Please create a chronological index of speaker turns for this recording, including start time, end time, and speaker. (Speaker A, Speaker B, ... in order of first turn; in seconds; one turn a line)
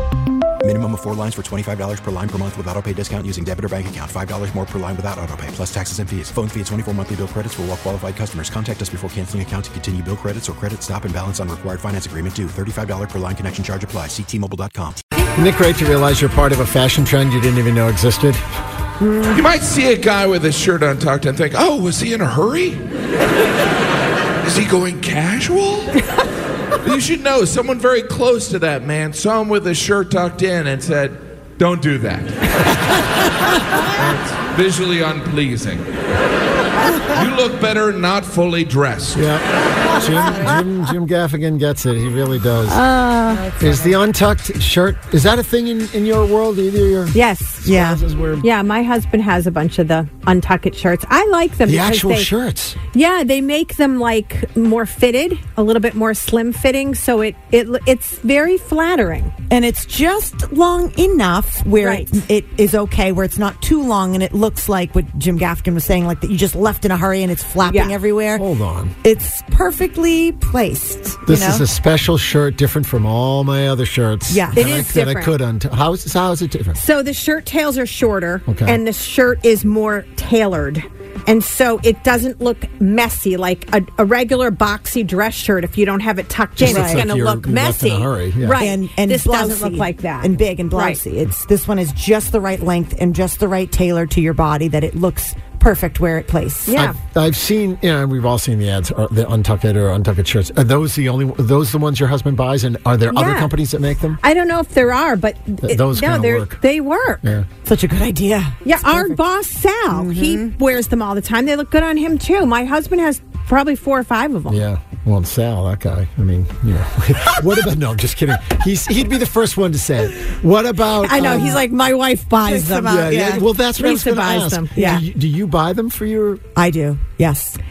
Speaker A: 0.6-15.0
Speaker B: 15.4-18.4
Speaker C: 19.3-22.8
Speaker C: 24.4-26.0
Speaker C: 26.8-32.9
Speaker C: 33.8-35.9
Speaker C: 37.0-39.3
Speaker B: 39.1-42.8
Speaker D: 42.7-43.8
Speaker B: 43.5-48.5
Speaker E: 47.1-47.7
Speaker D: 47.6-48.0
Speaker E: 48.4-52.3
Speaker B: 51.6-52.8
Speaker E: 52.9-59.3
Speaker D: 59.5-68.5
Speaker E: 61.8-62.1
Speaker E: 67.7-68.0
Speaker B: 68.3-69.0
Speaker D: 69.0-71.7
Speaker B: 71.3-76.8
Speaker D: 74.3-74.7
Speaker E: 74.5-75.4
Speaker E: 76.8-91.0
Speaker B: 78.5-78.8
Speaker B: 86.6-88.7
Speaker D: 86.7-87.0
Speaker D: 88.6-96.9
Speaker E: 96.7-97.0
Speaker B: 96.9-104.2
Speaker E: 103.1-103.5
Speaker E: 104.2-107.2
Speaker B: 105.6-106.6
Speaker B: 107.2-107.5
Speaker D: 107.7-109.2
Speaker E: 108.6-114.7
Speaker D: 109.9-110.5
Speaker B: 114.5-121.6
Speaker E: 121.0-123.1
Speaker D: 122.5-123.4
Speaker B: 122.7-126.5
Speaker E: 123.8-125.0
Speaker D: 124.8-125.0
Speaker D: 126.5-127.6